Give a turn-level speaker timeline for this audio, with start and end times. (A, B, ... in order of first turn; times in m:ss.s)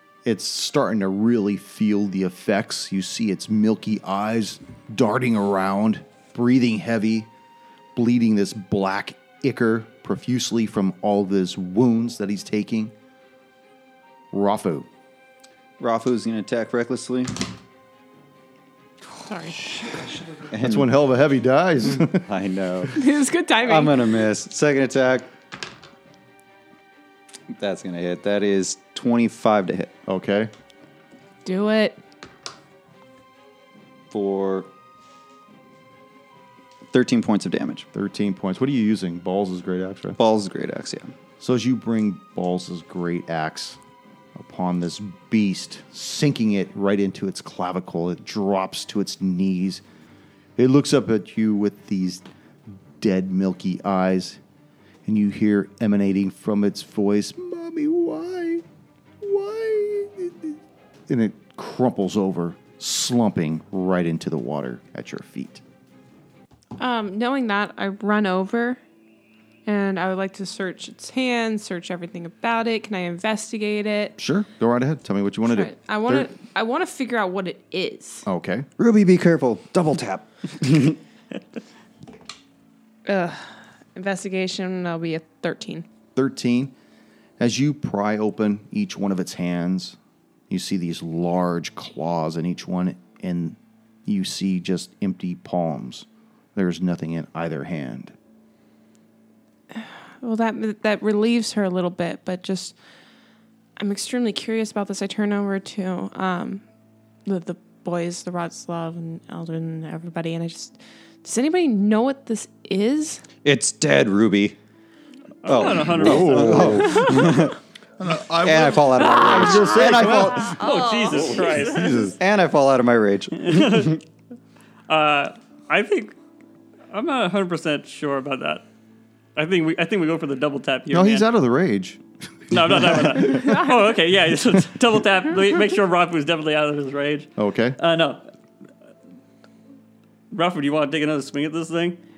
0:00.2-0:07.3 A
0:07.9-0:12.9 A
0:14.3-0:14.9 A
0:15.8-0:17.4 B
0:19.2-0:19.7 C
0:20.0-0:20.4 D
0:20.5-0:20.9 B
0:20.6-0:22.2 A
0:22.0-0:23.0 B
0:22.9-0:24.0 C
0:23.6-0:25.3 B
0:27.5-0:29.9 B
0:30.1-0:30.5 A
0:31.4-0:32.0 C
0:34.1-0:34.7 B
0:36.9-0:37.8 B
0:37.9-0:40.2 A
0:40.1-0:41.1 B
0:41.4-0:43.8 A
0:44.4-0:49.8 A
0:50.6-0:52.2 A
0:53.0-0:54.4 A
0:55.0-0:58.6 A
0:59.2-1:05.6 A
1:06.8-1:08.8 C
1:09.6-1:14.2 C
1:14.2-1:16.3 A
1:15.4-1:18.3 C
1:18.2-1:18.7 A
1:18.8-1:21.0 B
1:23.0-1:25.8 C
1:26.2-1:26.7 A
1:27.4-1:30.0 A
1:30.5-1:38.1 A
1:39.7-1:42.7 C
1:43.8-1:46.6 C
1:47.2-1:53.2 C
1:53.4-1:54.6 B
1:55.4-1:57.2 E
1:55.4-1:57.6 B
1:55.6-1:57.3 A
1:58.0-1:59.7 D
1:58.4-2:00.6 B
1:59.1-2:02.1 C
1:59.2-2:00.6 A
2:00.6-2:02.1 E
2:01.5-2:04.0 B
2:03.4-2:04.0 E
2:04.9-2:06.1 E
2:06.9-2:08.6 E
2:09.4-2:11.3 E
2:10.9-2:13.5 A
2:12.5-2:18.2 E
2:17.4-2:17.8 A
2:20.3-2:22.0 E